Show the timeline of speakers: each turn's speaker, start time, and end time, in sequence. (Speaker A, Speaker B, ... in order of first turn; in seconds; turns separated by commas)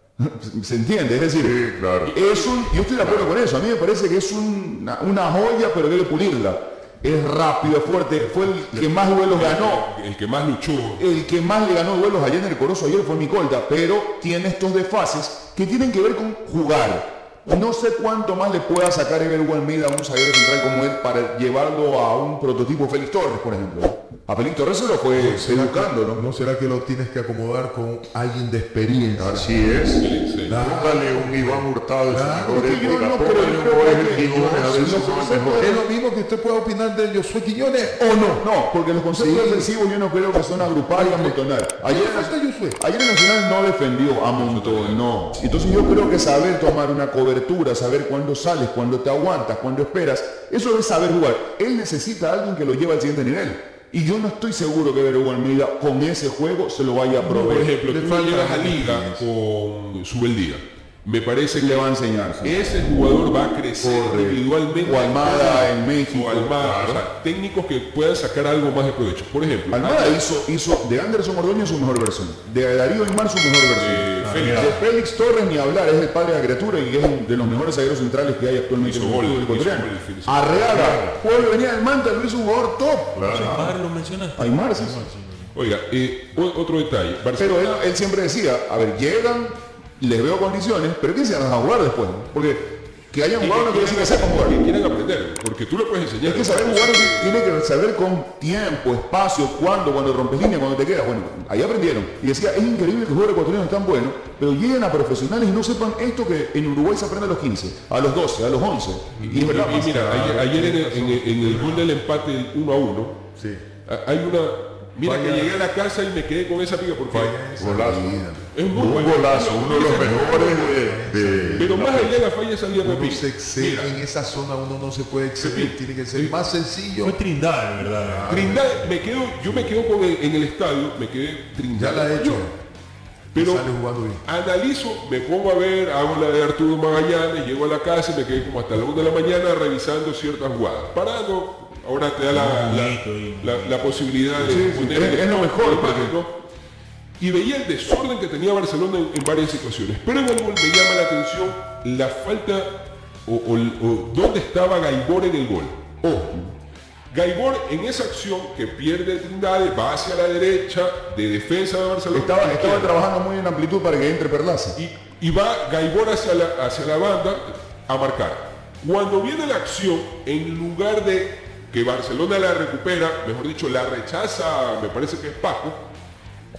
Speaker A: 0.2-1.6, Speaker B: 1.4-2.1, Speaker C: 2.1-3.3, Speaker A: 2.1-9.8, Speaker C: 8.7-11.0, Speaker A: 11.0-26.2, Speaker D: 25.1-29.6, Speaker B: 29.2-35.8, Speaker C: 29.9-30.6, Speaker D: 30.5-38.5, Speaker A: 32.5-35.8, Speaker A: 38.0-57.7, Speaker D: 39.1-39.7, Speaker D: 40.8-42.8, Speaker C: 44.3-45.0, Speaker C: 57.2-61.9, Speaker D: 57.3-59.3, Speaker A: 61.6-62.6, Speaker C: 62.4-70.2, Speaker A: 63.8-66.6, Speaker B: 66.6-67.0, Speaker A: 69.7-83.8, Speaker C: 73.8-74.8, Speaker E: 74.2-74.8, Speaker C: 78.8-81.0, Speaker B: 80.7-81.2, Speaker B: 83.2-83.6, Speaker E: 83.3-85.5, Speaker A: 84.4-85.1, Speaker C: 85.5-87.8, Speaker A: 87.4-94.5, Speaker C: 93.4-97.4, Speaker A: 96.2-110.1, Speaker D: 109.1-111.9, Speaker C: 109.2-113.2, Speaker D: 113.4-113.7, Speaker C: 113.9-117.8, Speaker D: 115.0-115.6, Speaker D: 117.1-122.2, Speaker B: 117.6-118.2, Speaker C: 118.5-120.7, Speaker B: 118.7-122.1, Speaker C: 121.6-123.9, Speaker D: 122.8-127.2, Speaker C: 125.4-126.3, Speaker E: 127.0-128.7, Speaker D: 127.8-128.8, Speaker C: 128.3-132.5, Speaker D: 131.7-132.6, Speaker D: 133.3-134.2, Speaker C: 133.3-133.7, Speaker C: 134.2-146.3, Speaker E: 142.3-143.8, Speaker E: 144.4-145.0, Speaker A: 144.4-146.2, Speaker C: 147.2-152.7, Speaker C: 153.3-155.8, Speaker A: 156.0-156.5, Speaker C: 157.1-162.9, Speaker A: 162.1-164.8, Speaker C: 164.8-175.8